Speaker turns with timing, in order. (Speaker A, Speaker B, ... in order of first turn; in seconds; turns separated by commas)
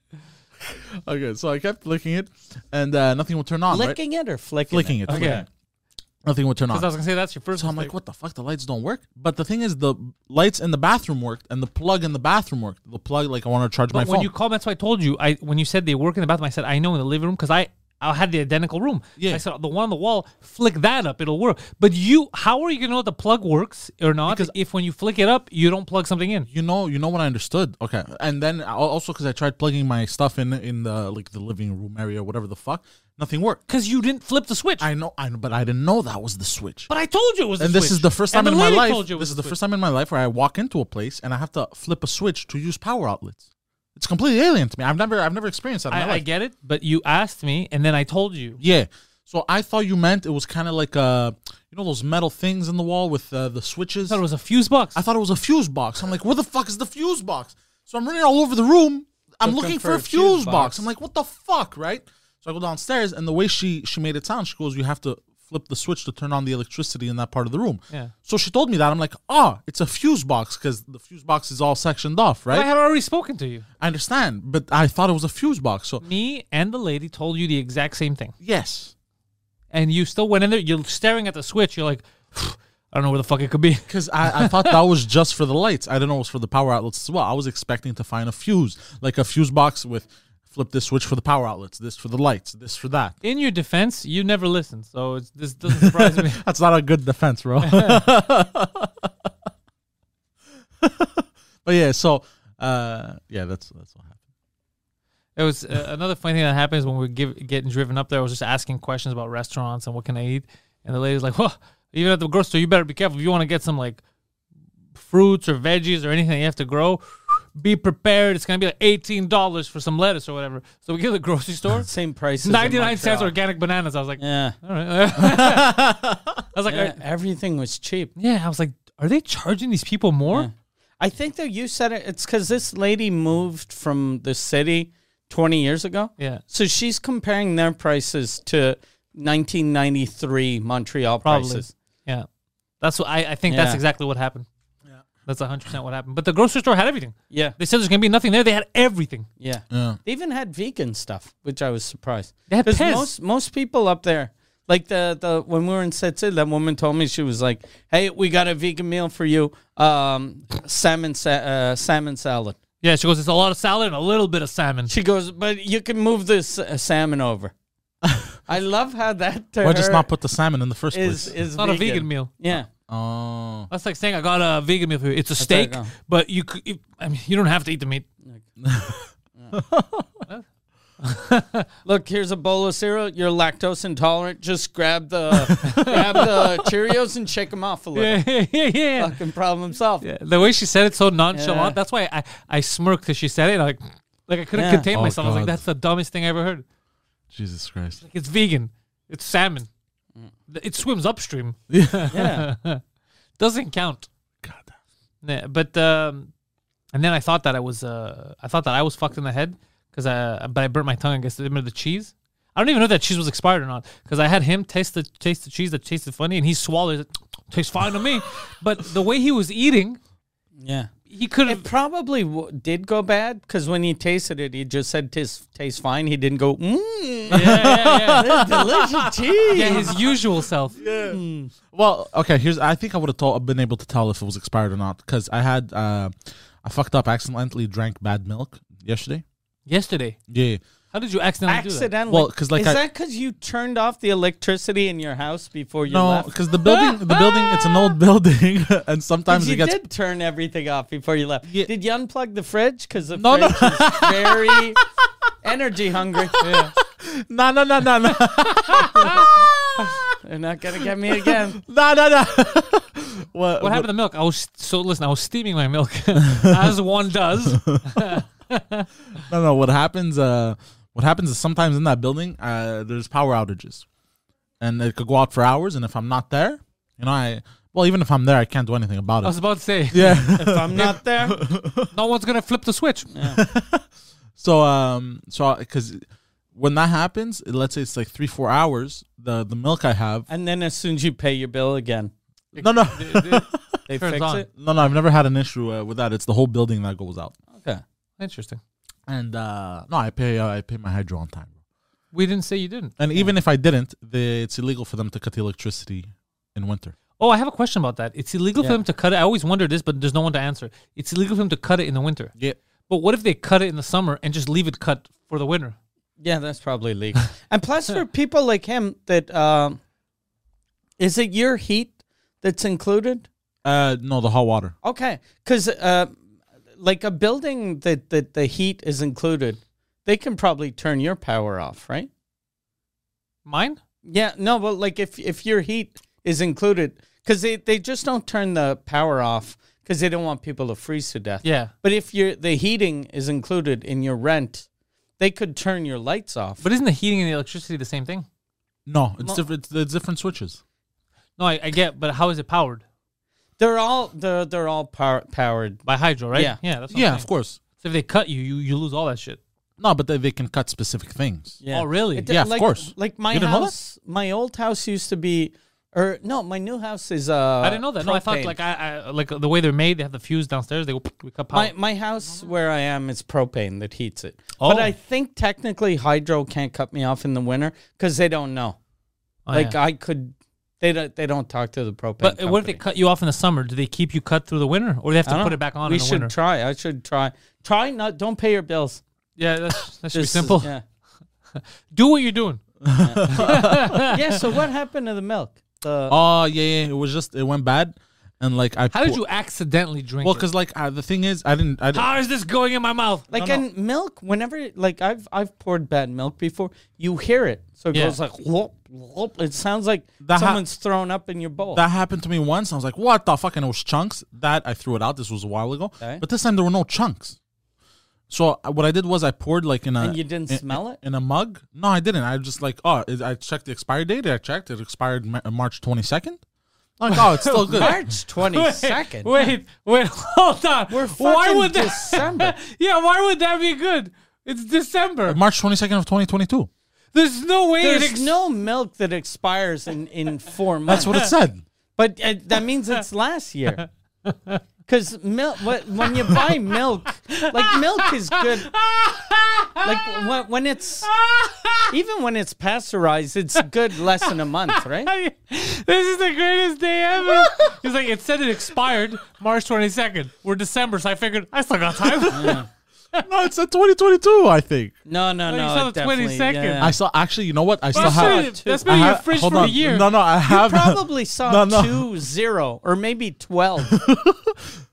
Speaker A: 0.6-4.0, Speaker B: 3.7-5.5, Speaker A: 4.7-5.5, Speaker C: 5.1-5.5, Speaker A: 6.2-6.9, Speaker C: 6.7-7.9, Speaker A: 7.5-14.3, Speaker C: 13.9-26.5, Speaker A: 19.2-19.4, Speaker A: 24.3-24.5, Speaker A: 26.5-33.6, Speaker C: 33.7-34.9, Speaker A: 34.8-36.9, Speaker C: 36.9-39.6, Speaker A: 37.6-43.4, Speaker A: 44.0-46.2, Speaker C: 45.9-48.6, Speaker A: 48.6-54.2, Speaker C: 54.1-55.0, Speaker A: 55.0-72.7, Speaker B: 59.4-60.9, Speaker C: 72.5-73.7, Speaker A: 73.8-76.0, Speaker C: 76.0-78.3, Speaker A: 78.4-78.9, Speaker C: 79.7-84.8, Speaker A: 83.9-93.2, Speaker C: 93.2-96.4, Speaker A: 95.7-99.1, Speaker C: 97.6-98.0, Speaker A: 100.8-104.2, Speaker C: 105.4-114.0, Speaker C: 115.0-121.9, Speaker B: 121.8-123.3, Speaker C: 122.4-126.0, Speaker B: 124.2-124.5, Speaker A: 125.2-126.4, Speaker C: 126.5-127.0, Speaker B: 126.7-128.1, Speaker C: 128.2-130.5, Speaker B: 130.3-141.7, Speaker C: 141.2-142.3, Speaker C: 142.8-144.5, Speaker B: 143.5-143.8, Speaker C: 145.3-149.3, Speaker B: 149.4-162.6, Speaker A: 149.7-150.0, Speaker C: 152.5-153.1, Speaker C: 162.8-164.9, Speaker B: 164.9-167.5, Speaker A: 168.1-168.3, Speaker B: 168.5-170.1, Speaker A: 169.6-171.3, Speaker B: 170.9-172.7, Speaker C: 171.6-172.3, Speaker A: 172.5-173.7, Speaker C: 173.7-178.1, Speaker B: 175.4-175.9, Speaker A: 178.6-180.2, Speaker C: 181.0-181.7, Speaker B: 181.8-188.2, Speaker A: 185.4-186.2, Speaker C: 185.6-186.1, Speaker C: 187.9-189.2, Speaker B: 189.0-190.1, Speaker C: 190.0-196.6, Speaker B: 191.3-191.8, Speaker B: 194.6-194.9, Speaker A: 194.9-195.6, Speaker A: 197.3-198.0, Speaker C: 198.0-199.7, Speaker C: 200.5-202.8, Speaker A: 201.7-202.2, Speaker B: 202.1-202.5, Speaker C: 203.4-204.1, Speaker A: 204.4-204.8, Speaker C: 205.2-206.3, Speaker C: 206.9-220.0, Speaker B: 220.6-220.9, Speaker C: 221.1-221.7, Speaker B: 221.4-230.0, Speaker A: 227.3-230.0, Speaker C: 227.3-228.3, Speaker C: 229.5-230.8, Speaker A: 230.8-239.2, Speaker B: 231.0-231.5, Speaker C: 239.7-240.2, Speaker A: 240.3-240.6, Speaker C: 240.9-241.9, Speaker B: 241.5-246.3, Speaker A: 242.1-242.8, Speaker A: 245.9-249.8, Speaker C: 246.7-247.9, Speaker B: 249.3-254.8, Speaker A: 253.1-254.8, Speaker B: 255.4-256.4, Speaker A: 256.4-260.1, Speaker C: 256.4-256.8, Speaker B: 260.2-261.6, Speaker A: 261.0-263.9, Speaker C: 263.6-268.9, Speaker A: 266.3-266.8, Speaker A: 267.4-268.2, Speaker A: 269.3-273.9, Speaker A: 274.6-279.4, Speaker C: 279.2-280.3, Speaker A: 279.9-281.9, Speaker B: 280.3-281.4, Speaker C: 281.9-283.1, Speaker B: 283.1-283.4, Speaker A: 283.2-283.9, Speaker A: 284.4-290.3, Speaker B: 290.3-292.1, Speaker C: 292.6-294.5, Speaker A: 292.6-293.8, Speaker B: 293.9-294.5, Speaker A: 294.6-297.4, Speaker B: 297.5-297.8, Speaker C: 298.2-298.6, Speaker A: 299.1-301.5, Speaker C: 302.1-303.0, Speaker A: 303.0-307.0, Speaker C: 307.2-312.3, Speaker C: 312.9-315.8, Speaker B: 316.2-319.8, Speaker B: 321.0-323.3, Speaker A: 323.6-324.7, Speaker B: 324.8-326.1, Speaker B: 326.8-332.1, Speaker C: 333.5-333.8, Speaker B: 334.1-344.7, Speaker C: 341.4-341.7, Speaker B: 345.2-346.6, Speaker C: 346.6-348.3, Speaker A: 348.9-350.6, Speaker C: 351.4-352.8, Speaker B: 353.6-355.8, Speaker C: 355.9-359.4, Speaker A: 356.9-357.6, Speaker A: 359.8-361.6, Speaker B: 361.6-368.6, Speaker C: 361.7-362.3, Speaker A: 362.3-363.7, Speaker C: 367.6-371.7, Speaker B: 371.5-378.8, Speaker C: 374.6-374.9, Speaker C: 379.5-379.8, Speaker B: 379.5-382.8, Speaker C: 382.2-386.3, Speaker B: 385.3-389.0, Speaker C: 389.4-390.7, Speaker B: 390.1-390.8, Speaker C: 391.5-392.6, Speaker A: 392.8-394.0, Speaker B: 393.0-396.2, Speaker C: 393.3-394.2, Speaker A: 396.1-399.2, Speaker C: 398.9-400.5, Speaker A: 400.2-402.1, Speaker C: 401.9-403.3, Speaker A: 403.3-403.6, Speaker B: 403.3-411.8, Speaker C: 407.9-408.2, Speaker A: 410.2-410.6, Speaker A: 411.7-417.4, Speaker A: 418.3-426.4, Speaker B: 420.0-421.0, Speaker A: 427.0-427.9, Speaker C: 427.1-435.4, Speaker B: 427.7-429.5, Speaker B: 430.9-432.6, Speaker A: 435.3-436.7, Speaker C: 437.1-438.4, Speaker B: 437.8-441.3, Speaker A: 440.9-441.6, Speaker B: 442.0-443.9, Speaker C: 444.3-444.6, Speaker B: 444.9-448.7, Speaker C: 447.3-450.2, Speaker B: 449.8-451.1, Speaker C: 451.1-451.9, Speaker B: 451.9-455.1, Speaker C: 454.2-462.6, Speaker A: 462.2-462.5, Speaker B: 462.3-462.7, Speaker A: 463.2-464.9, Speaker B: 465.1-467.0, Speaker C: 465.5-466.9, Speaker A: 466.8-472.1, Speaker B: 467.9-468.9, Speaker C: 467.9-470.1, Speaker B: 470.5-474.0, Speaker A: 473.9-474.7